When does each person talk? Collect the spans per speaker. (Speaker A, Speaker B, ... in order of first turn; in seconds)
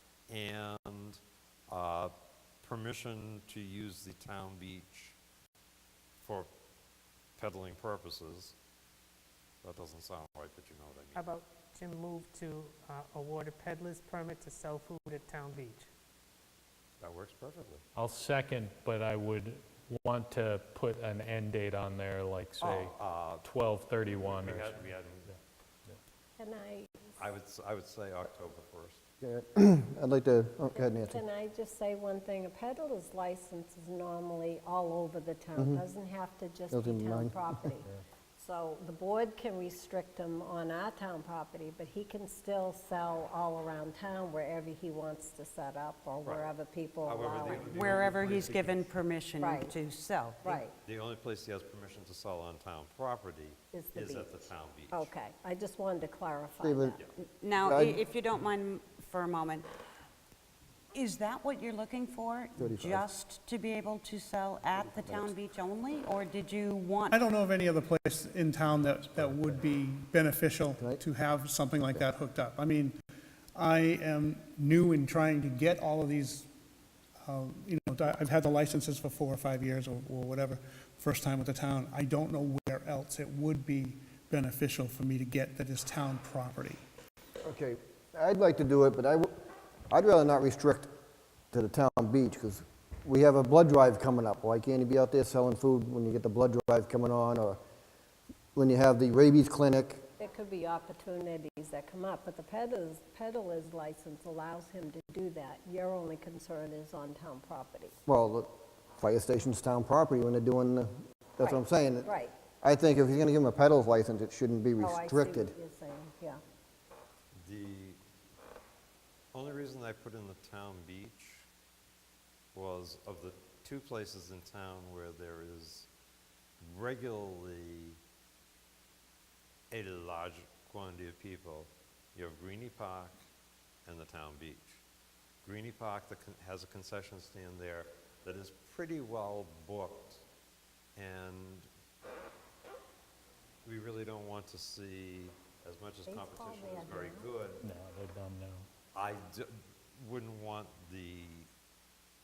Speaker A: 0.3-5.2, 6.2-6.5, 7.4-8.6, 9.6-11.3, 17.0-17.8, 22.6-23.5, 24.1-25.3, 27.2-29.0, 46.2-46.5, 47.0-48.9, 50.8-55.1, 117.4-118.0, 119.3-121.5, 122.5-125.9, 126.6-128.0, 129.7-133.2, 133.9-134.8, 135.4-140.2, 141.0-141.7, 143.6-147.7, 148.9-151.5
Speaker B: 11.1-15.9
Speaker C: 17.9-25.4, 68.7-69.5, 147.6-148.7
Speaker D: 26.4-27.0, 30.7-48.0, 49.4-49.8, 50.4-50.7, 53.7-57.0, 100.2-108.0, 111.4-112.3, 114.8-116.4, 146.1-147.3
Speaker E: 29.2-31.2, 35.6-35.8, 36.7-37.8, 56.6-57.0, 57.6-58.0, 62.6-63.0, 65.0-65.3, 87.4-89.3, 89.9-90.9, 91.5-97.6, 98.6-100.0, 108.1-112.1, 112.6-115.5
Speaker F: 47.7-50.6, 57.2-59.7, 60.9-67.2
Speaker G: 67.1-73.0, 73.5-76.5, 77.2-86.8